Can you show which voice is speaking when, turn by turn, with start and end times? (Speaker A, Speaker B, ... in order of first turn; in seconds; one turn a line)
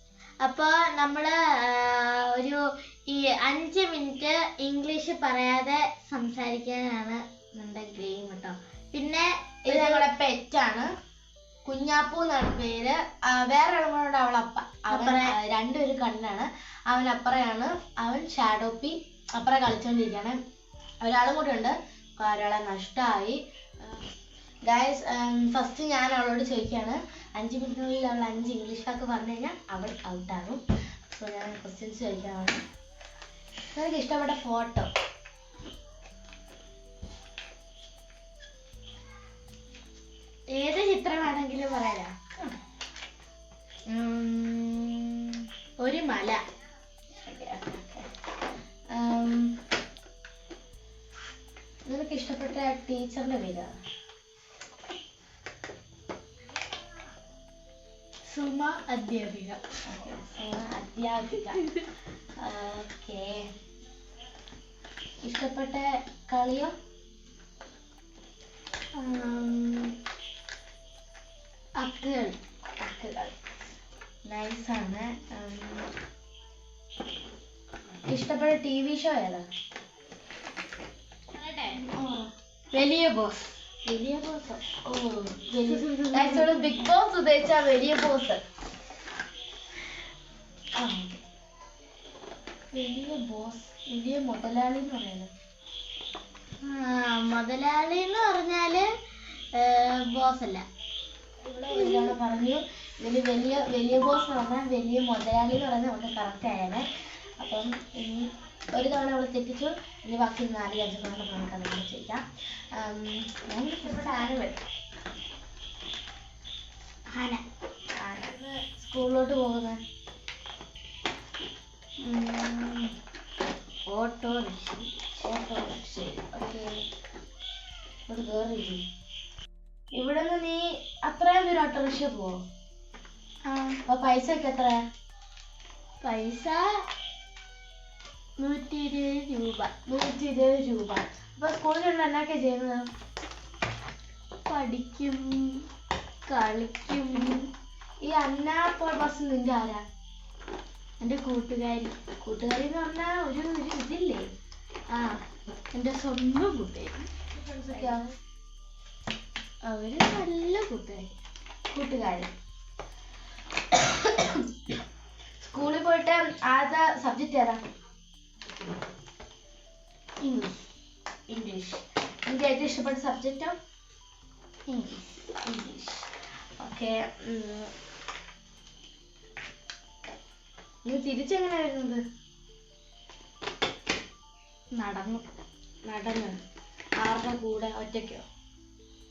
Speaker A: 0.4-10.1
Speaker B: 9.7-10.9
Speaker B: 11.7-20.4
Speaker A: 14.9-15.3
Speaker B: 21.0-24.0
Speaker B: 24.7-32.6
Speaker B: 33.7-34.9
Speaker A: 40.5-42.1
Speaker A: 43.9-46.4
Speaker B: 47.2-48.1
Speaker B: 48.9-49.5
Speaker B: 51.9-53.7
Speaker A: 58.3-59.6
Speaker B: 59.9-61.6
Speaker B: 62.4-63.4
Speaker B: 65.2-66.7
Speaker A: 69.0-70.0
Speaker A: 71.8-72.4
Speaker B: 72.8-73.4
Speaker B: 74.3-75.9
Speaker B: 78.1-79.5
Speaker A: 81.3-81.8
Speaker B: 81.7-82.3
Speaker A: 82.7-83.5
Speaker B: 83.8-88.4
Speaker A: 85.7-86.8
Speaker B: 90.8-91.2
Speaker B: 92.7-95.3
Speaker A: 96.6-98.9
Speaker A: 99.5-100.6
Speaker B: 101.4-106.9
Speaker A: 101.7-102.1
Speaker B: 107.4-114.6
Speaker A: 117.1-117.4
Speaker B: 118.0-119.8
Speaker A: 122.0-122.9
Speaker A: 123.9-125.0
Speaker B: 125.2-126.8
Speaker B: 128.1-128.8
Speaker B: 129.9-132.4
Speaker A: 133.5-133.8
Speaker B: 133.9-134.8
Speaker A: 136.0-136.9
Speaker A: 138.4-139.7
Speaker B: 139.9-142.9
Speaker A: 144.5-145.7
Speaker A: 146.3-147.5
Speaker B: 148.0-149.8
Speaker A: 151.0-151.9
Speaker B: 152.2-154.2
Speaker A: 154.9-155.2
Speaker A: 155.7-157.1
Speaker B: 157.3-158.0
Speaker A: 159.7-161.2
Speaker B: 161.7-162.3
Speaker B: 163.7-164.4
Speaker B: 165.4-167.6
Speaker A: 170.2-170.7
Speaker B: 171.3-173.6
Speaker A: 174.7-175.3
Speaker B: 175.4-177.7
Speaker B: 180.8-182.0
Speaker A: 184.8-185.3
Speaker B: 185.9-186.3
Speaker B: 187.0-188.2